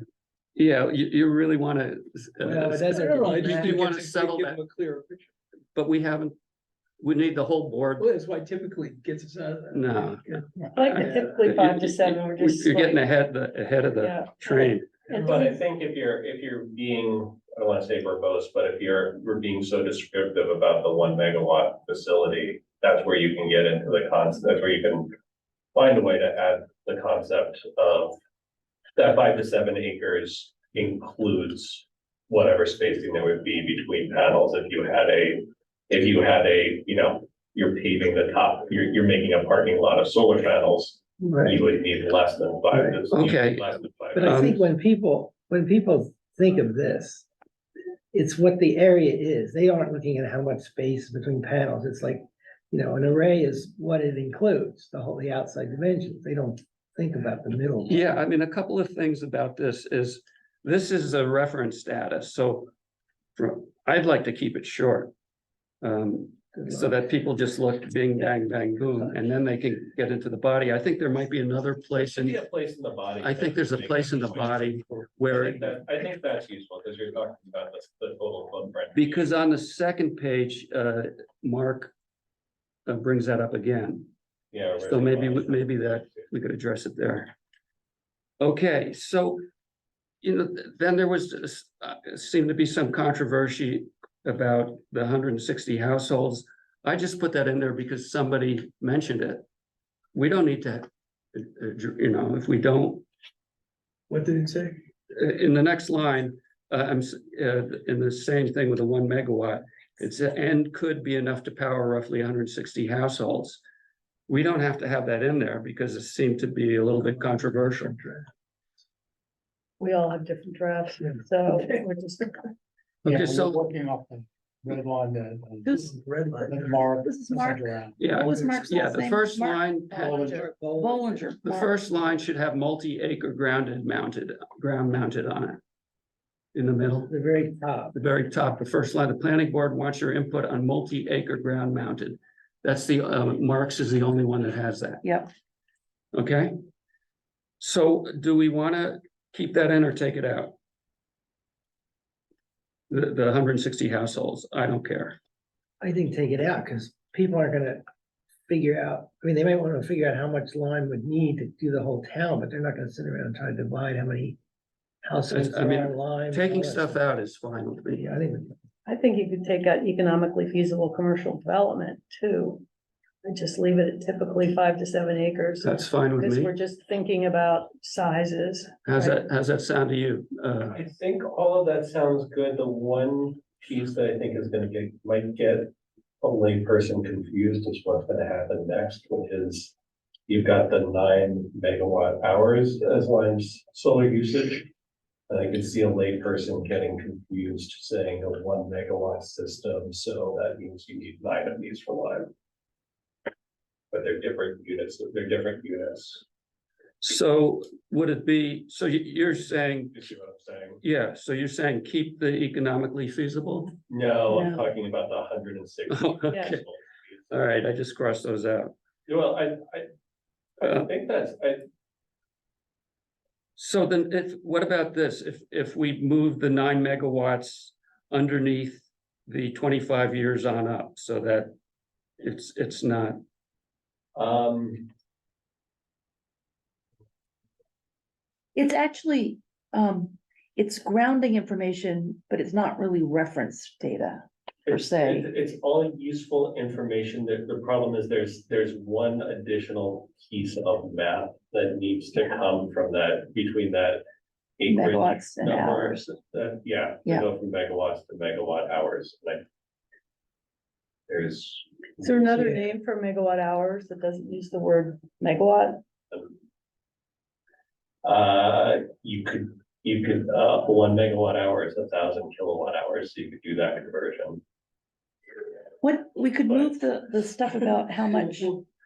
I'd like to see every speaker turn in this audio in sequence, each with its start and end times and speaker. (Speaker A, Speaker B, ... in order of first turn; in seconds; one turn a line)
Speaker A: 0.6-4.6
Speaker B: 2.4-3.9
Speaker C: 2.5-5.3
Speaker A: 5.7-6.3
Speaker A: 7.0-8.1
Speaker C: 8.0-11.4
Speaker A: 9.7-15.0
Speaker D: 10.7-13.1
Speaker D: 13.9-15.5
Speaker C: 15.1-15.4
Speaker E: 15.1-25.1
Speaker E: 25.7-28.2
Speaker E: 28.9-44.5
Speaker B: 41.2-41.5
Speaker B: 42.7-43.0
Speaker A: 43.1-44.6
Speaker B: 44.1-47.3
Speaker B: 48.1-58.1
Speaker A: 57.9-62.7
Speaker A: 63.4-65.1
Speaker A: 65.8-72.4
Speaker B: 66.6-67.0
Speaker E: 71.9-79.3
Speaker A: 73.2-75.7
Speaker A: 78.9-81.9
Speaker A: 82.8-84.1
Speaker E: 84.5-86.3
Speaker A: 84.8-87.3
Speaker A: 88.4-89.4
Speaker A: 90.2-99.4
Speaker A: 100.1-103.0
Speaker C: 104.1-104.8
Speaker A: 105.1-113.6
Speaker A: 114.3-118.0
Speaker C: 116.9-118.2
Speaker D: 119.8-122.5
Speaker A: 123.0-123.7
Speaker F: 123.0-125.8
Speaker G: 125.6-125.9
Speaker C: 125.7-127.0
Speaker F: 126.4-128.4
Speaker G: 127.0-131.7
Speaker A: 128.0-130.2
Speaker C: 128.1-128.7
Speaker B: 129.9-131.3
Speaker F: 130.1-130.4
Speaker A: 131.4-135.6
Speaker A: 136.5-137.1
Speaker B: 137.1-137.9
Speaker A: 137.9-145.1
Speaker A: 146.1-146.5
Speaker A: 147.6-150.5
Speaker A: 152.9-155.2
Speaker B: 155.8-157.8
Speaker B: 158.5-164.4
Speaker B: 165.0-167.0
Speaker A: 165.3-168.1
Speaker B: 167.9-168.6
Speaker D: 168.8-172.6
Speaker D: 173.2-179.2
Speaker A: 175.6-176.5
Speaker A: 178.8-180.8
Speaker E: 180.7-189.7
Speaker E: 190.3-194.7
Speaker E: 195.3-202.3
Speaker E: 203.9-206.2
Speaker A: 207.0-209.9
Speaker E: 209.9-210.8
Speaker A: 210.8-213.7
Speaker E: 213.9-217.3
Speaker G: 214.3-214.7
Speaker A: 215.9-216.6
Speaker D: 216.3-216.6
Speaker A: 217.3-218.7
Speaker E: 219.1-219.9
Speaker E: 220.6-221.6
Speaker A: 220.6-220.9
Speaker A: 223.6-231.5
Speaker A: 232.2-233.2
Speaker E: 234.1-234.9
Speaker G: 238.5-245.3
Speaker E: 244.7-254.0
Speaker E: 254.6-259.4
Speaker G: 254.7-256.0
Speaker E: 261.1-262.4
Speaker D: 262.0-265.8
Speaker E: 266.1-266.4
Speaker E: 268.0-274.4
Speaker G: 275.8-278.6